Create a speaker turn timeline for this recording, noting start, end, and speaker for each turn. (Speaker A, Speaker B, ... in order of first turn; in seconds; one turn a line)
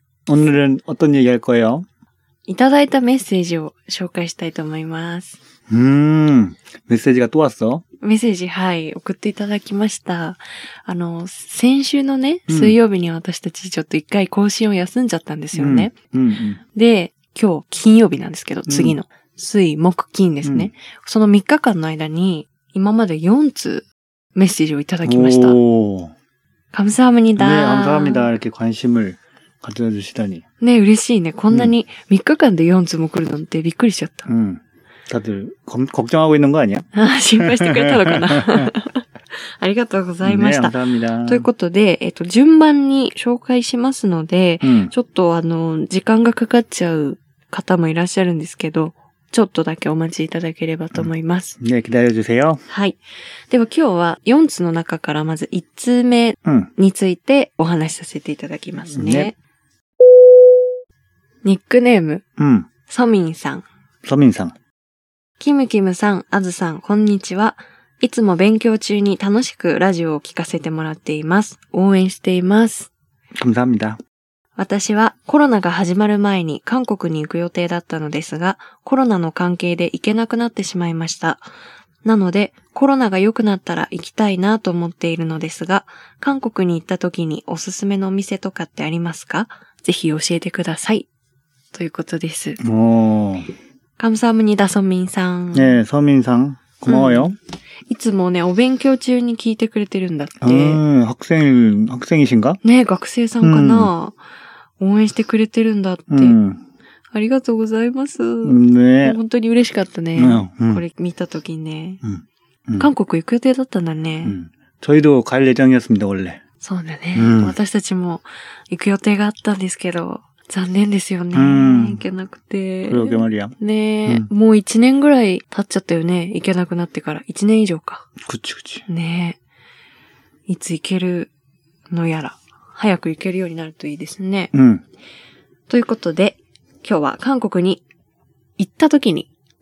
Speaker A: 0.3-1.9
Speaker B: 2.5-5.4
Speaker A: 5.7-7.8
Speaker B: 8.0-15.9
Speaker A: 12.5-12.8
Speaker A: 15.6-16.6
Speaker B: 16.7-25.6
Speaker A: 18.7-19.0
Speaker A: 20.4-20.7
Speaker A: 25.1-26.1
Speaker B: 26.7-28.3
Speaker A: 27.4-30.4
Speaker B: 30.6-34.3
Speaker A: 34.3-36.9
Speaker B: 36.9-39.0
Speaker A: 37.4-38.7
Speaker B: 39.6-51.6
Speaker A: 40.2-41.5
Speaker A: 44.6-44.9
Speaker A: 51.6-52.6
Speaker B: 52.7-53.0
Speaker B: 53.5-59.4
Speaker A: 56.4-56.7
Speaker A: 58.9-59.3
Speaker B: 61.4-62.2
Speaker A: 62.4-62.7
Speaker B: 62.9-63.6
Speaker A: 64.0-64.6
Speaker B: 65.4-72.9
Speaker A: 73.4-74.0
Speaker B: 74.6-81.4
Speaker B: 82.0-91.1
Speaker B: 91.7-92.6
Speaker A: 92.6-93.5
Speaker B: 94.0-95.8
Speaker A: 95.5-97.3
Speaker B: 96.9-97.3
Speaker B: 97.9-100.8
Speaker A: 100.4-102.6
Speaker B: 102.6-104.2
Speaker A: 103.4-103.9
Speaker B: 104.8-106.4
Speaker A: 106.1-106.6
Speaker B: 107.1-112.0
Speaker A: 108.4-109.2
Speaker A: 110.2-110.8
Speaker A: 112.0-112.9
Speaker B: 112.8-114.4
Speaker A: 114.2-116.4
Speaker B: 116.6-128.1
Speaker A: 117.2-117.6
Speaker A: 121.3-122.0
Speaker A: 122.8-124.3
Speaker A: 128.2-128.8
Speaker B: 128.9-129.4
Speaker B: 130.5-131.3
Speaker B: 131.9-134.5
Speaker A: 134.5-134.8
Speaker B: 135.7-137.8
Speaker B: 138.6-139.3